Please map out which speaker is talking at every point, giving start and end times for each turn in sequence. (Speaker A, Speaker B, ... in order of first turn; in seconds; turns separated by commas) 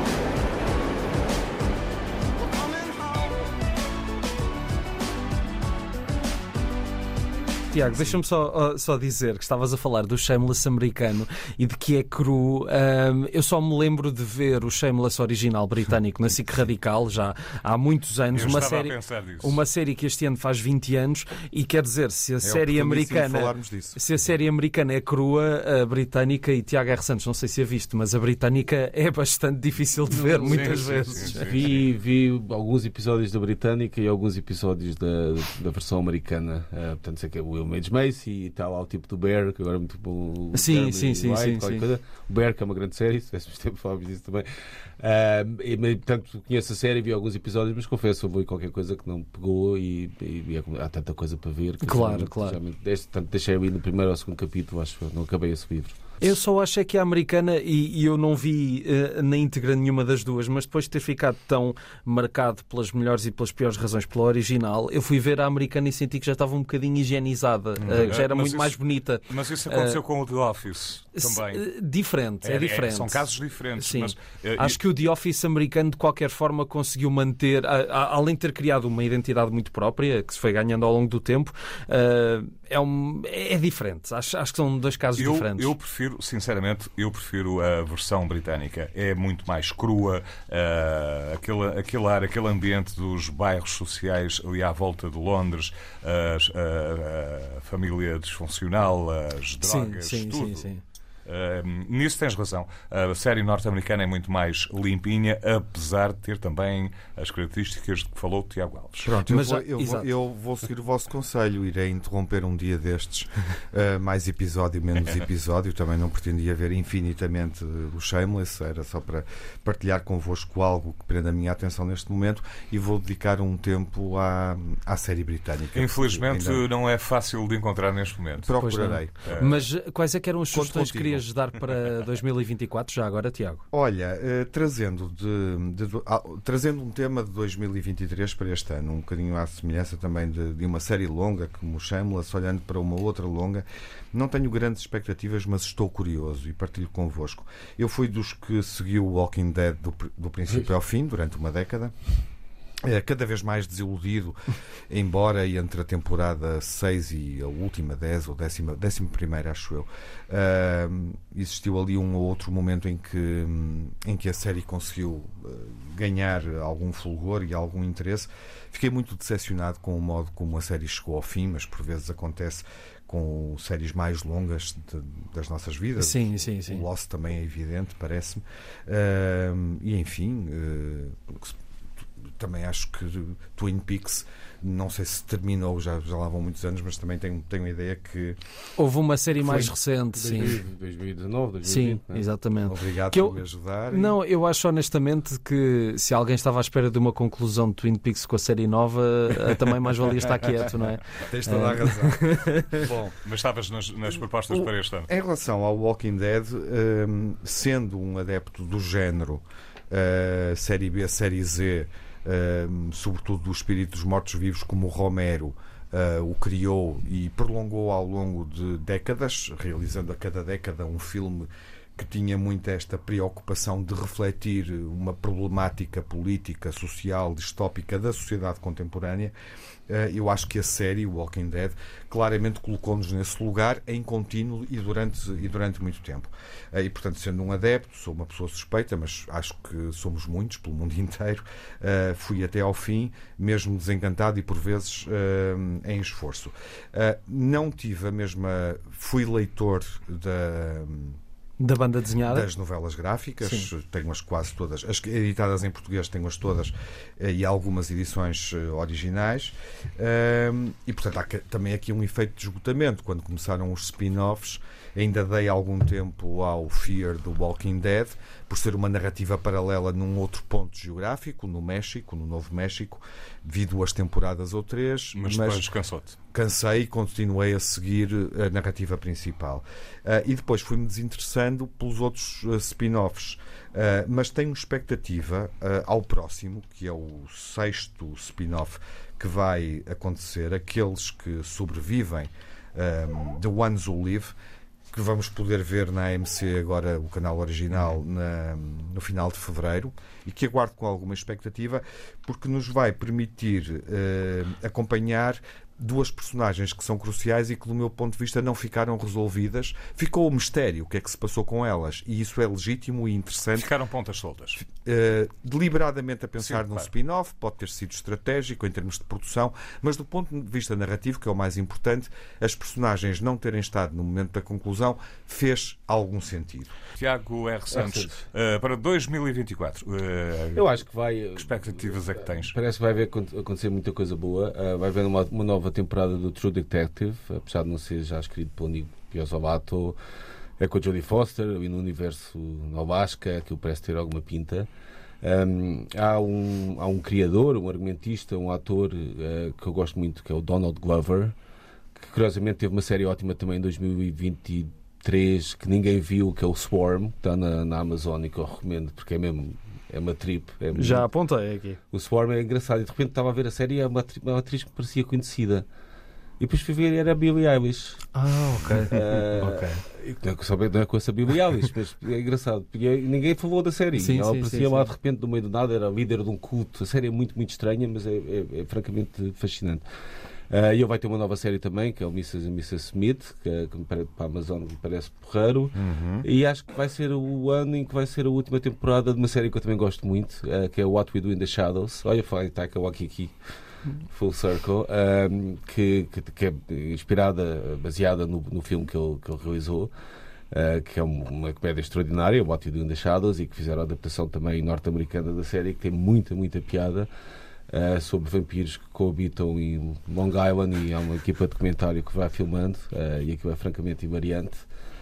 Speaker A: 7.7-31.5, Speaker B: 18.3-19.6, Speaker C: 22.4-24.0, Speaker D: 30.1-44.5, Speaker B: 30.5-31.8, Speaker A: 40.5-41.8, Speaker D: 45.0-56.0, Speaker A: 51.8-52.6, Speaker A: 56.2-70.0, Speaker C: 67.8-68.2, Speaker B: 68.1-71.6, Speaker A: 71.2-73.2, Speaker B: 72.4-74.8, Speaker A: 73.8-85.7, Speaker B: 85.2-100.7, Speaker A: 99.6-100.8, Speaker B: 101.2-109.1, Speaker C: 109.0-126.6, Speaker A: 109.3-110.1, Speaker B: 125.7-128.5, Speaker C: 128.4-129.4, Speaker A: 128.6-133.6, Speaker B: 129.2-129.6, Speaker C: 130.5-131.2, Speaker C: 133.7-152.1, Speaker C: 152.8-154.4, Speaker C: 154.9-181.6, Speaker A: 176.0-176.8, Speaker C: 182.2-188.4, Speaker A: 188.8-190.6, Speaker D: 189.4-192.2, Speaker A: 191.6-193.4, Speaker C: 192.7-194.2, Speaker A: 193.9-202.8, Speaker C: 201.2-203.1, Speaker B: 203.2-205.1, Speaker C: 204.5-229.3, Speaker C: 229.9-251.2, Speaker A: 251.6-252.5, Speaker C: 252.2-275.7, Speaker A: 253.4-253.7, Speaker B: 275.1-276.1, Speaker C: 276.3-294.3, Speaker C: 294.9-313.7, Speaker B: 313.6-314.6, Speaker C: 314.6-326.8, Speaker B: 316.4-316.9, Speaker B: 327.0-330.6, Speaker D: 327.7-328.2, Speaker D: 330.6-340.0, Speaker B: 331.3-332.5, Speaker D: 340.6-344.7, Speaker D: 345.2-351.3, Speaker D: 351.9-361.1, Speaker A: 360.7-361.8, Speaker D: 361.9-365.6, Speaker D: 366.4-368.1, Speaker A: 368.1-369.8, Speaker D: 368.8-379.8, Speaker A: 373.9-374.9, Speaker D: 380.5-393.4, Speaker C: 385.7-386.2, Speaker D: 393.9-399.9, Speaker D: 400.5-407.1, Speaker D: 407.7-414.7